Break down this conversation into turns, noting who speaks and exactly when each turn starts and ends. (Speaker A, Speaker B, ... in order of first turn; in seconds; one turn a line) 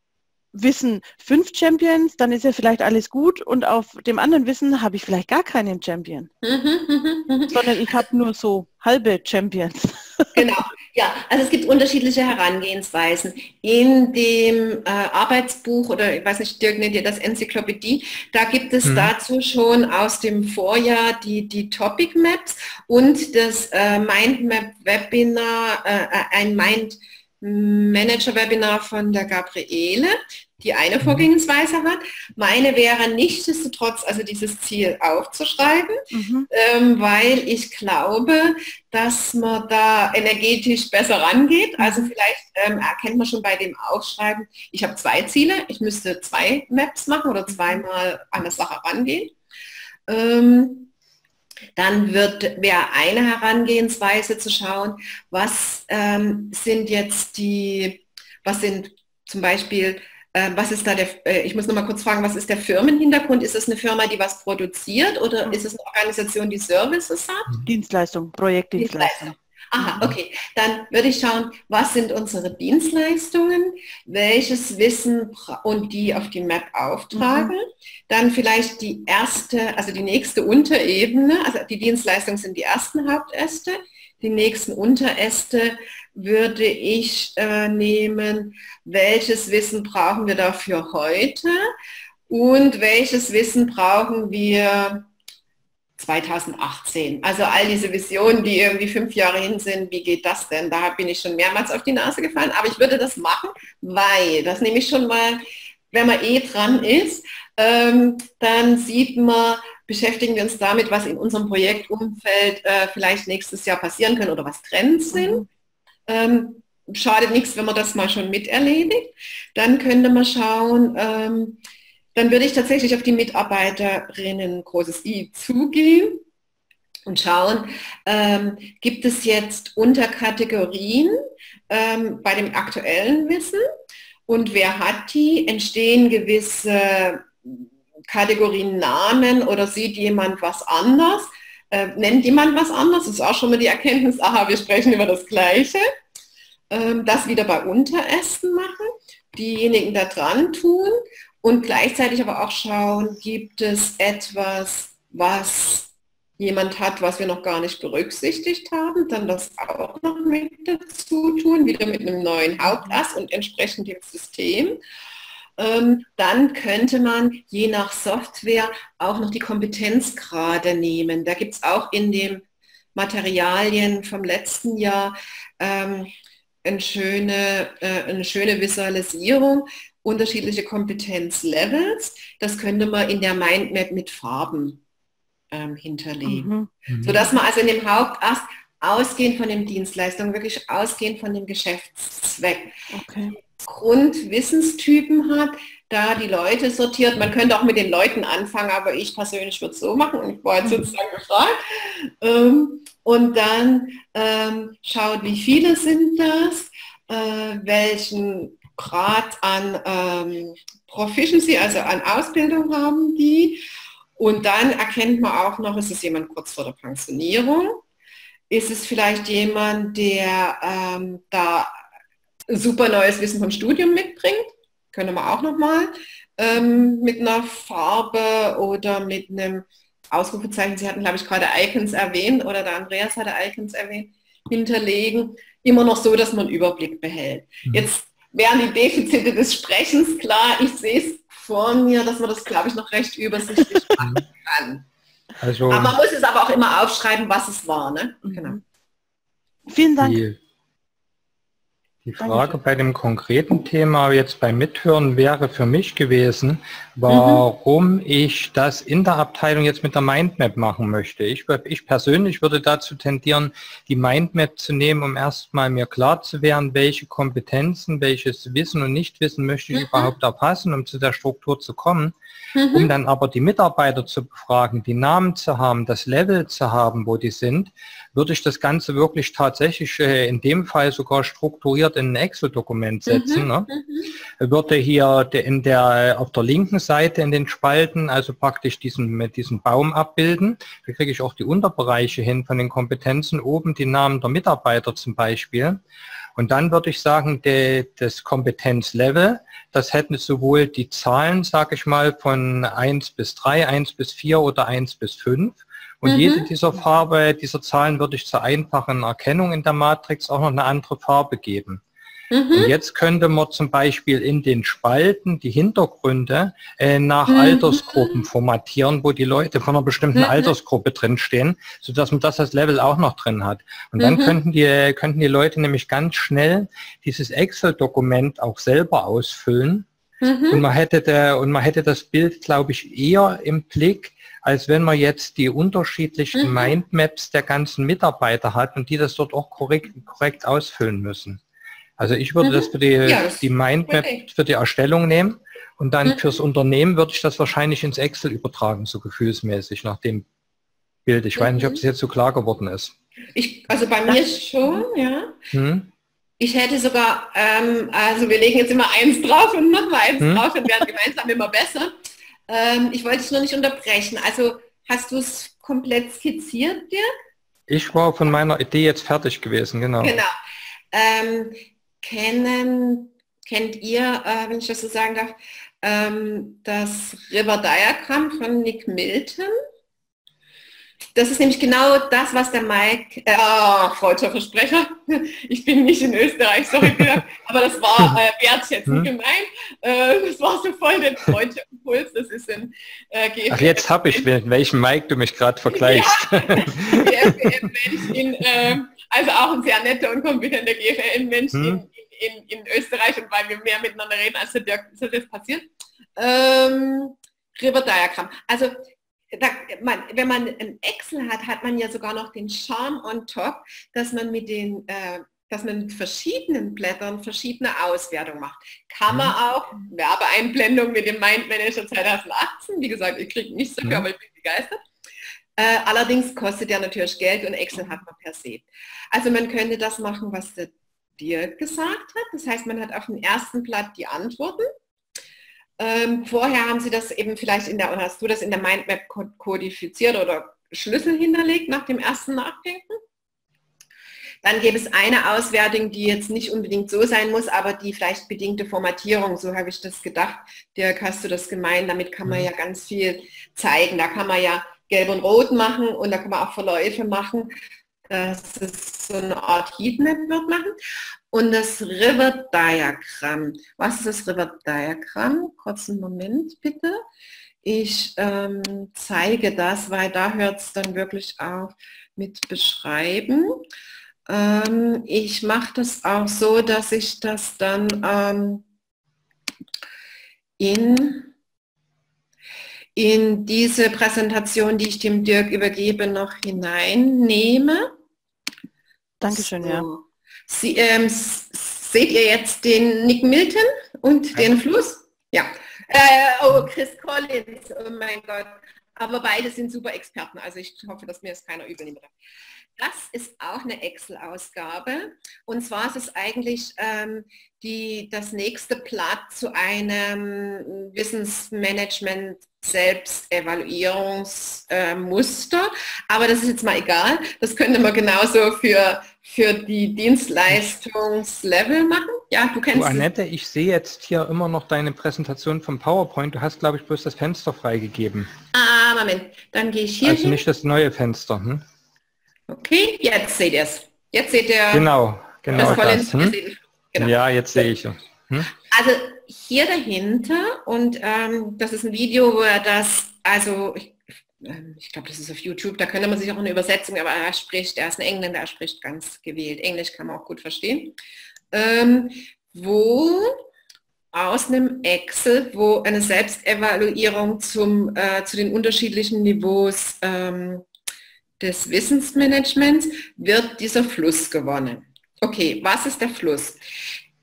Speaker A: 0.5-6.3
Speaker B: 6.4-7.9
Speaker A: 7.5-10.5
Speaker B: 10.3-49.3
Speaker C: 18.9-19.1
Speaker A: 36.1-36.5
Speaker A: 41.8-42.1
Speaker A: 47.5-47.8
Speaker B: 50.1-50.9
Speaker B: 51.8-67.6
Speaker A: 67.7-70.0
Speaker B: 68.8-91.6
Speaker A: 77.1-77.5
Speaker B: 92.3-95.1
Speaker B: 96.0-105.4
Speaker B: 105.9-115.4
Speaker A: 115.1-115.5
Speaker B: 116.1-121.6
Speaker B: 122.2-126.2
Speaker B: 127.1-131.2
Speaker B: 131.7-133.6
Speaker B: 134.3-145.8
Speaker B: 146.7-164.8
Speaker A: 162.7-163.0
Speaker B: 165.6-172.4
Speaker B: 172.9-176.1
Speaker B: 176.6-184.8
Speaker B: 185.5-192.7
Speaker A: 186.3-186.7
Speaker C: 186.9-187.2
Speaker A: 192.9-193.4
Speaker B: 193.6-213.6
Speaker B: 214.2-217.8
Speaker B: 218.5-221.7
Speaker B: 222.5-244.9
Speaker C: 245.4-246.0
Speaker B: 245.7-248.6
Speaker A: 248.3-248.6
Speaker A: 249.7-250.2
Speaker C: 250.0-250.4
Speaker C: 252.1-272.2
Speaker A: 252.2-252.5
Speaker B: 257.1-257.4
Speaker B: 269.7-270.1
Speaker B: 272.6-272.9
Speaker C: 272.7-283.7
Speaker B: 283.1-284.1
Speaker C: 284.4-295.8
Speaker C: 296.4-311.8
Speaker B: 306.1-306.5
Speaker B: 312.3-312.7
Speaker C: 312.5-329.9
Speaker B: 317.3-318.2
Speaker B: 320.1-320.5
Speaker B: 324.0-324.4
Speaker B: 330.2-330.6
Speaker C: 330.5-341.4
Speaker B: 336.4-336.7
Speaker C: 342.0-350.3
Speaker B: 342.4-344.3
Speaker B: 346.1-346.4
Speaker C: 351.1-352.9
Speaker B: 351.4-351.8
Speaker B: 353.4-355.4
Speaker A: 354.1-354.8
Speaker C: 355.5-355.9
Speaker B: 356.4-361.9
Speaker B: 362.5-367.1
Speaker C: 367.7-370.2
Speaker B: 370.0-370.3
Speaker B: 370.9-379.5
Speaker B: 381.1-394.3
Speaker C: 393.5-397.6
Speaker B: 395.7-408.8
Speaker C: 401.5-401.8
Speaker B: 409.3-424.8
Speaker C: 419.1-419.3
Speaker B: 425.6-434.7
Speaker B: 435.8-443.0
Speaker B: 444.4-457.5
Speaker B: 458.1-460.7
Speaker B: 461.3-467.0
Speaker B: 467.6-473.6
Speaker B: 474.3-478.6
Speaker B: 480.6-481.3
Speaker B: 483.0-487.9
Speaker A: 489.2-489.9
Speaker B: 489.3-502.1
Speaker B: 502.8-523.1
Speaker C: 522.7-528.3
Speaker B: 528.5-530.4
Speaker C: 530.0-531.6
Speaker B: 532.5-534.9
Speaker C: 534.7-536.4
Speaker B: 535.5-537.6
Speaker C: 537.0-538.5
Speaker B: 538.7-551.0
Speaker B: 551.5-553.4
Speaker B: 554.1-560.6
Speaker B: 561.4-566.6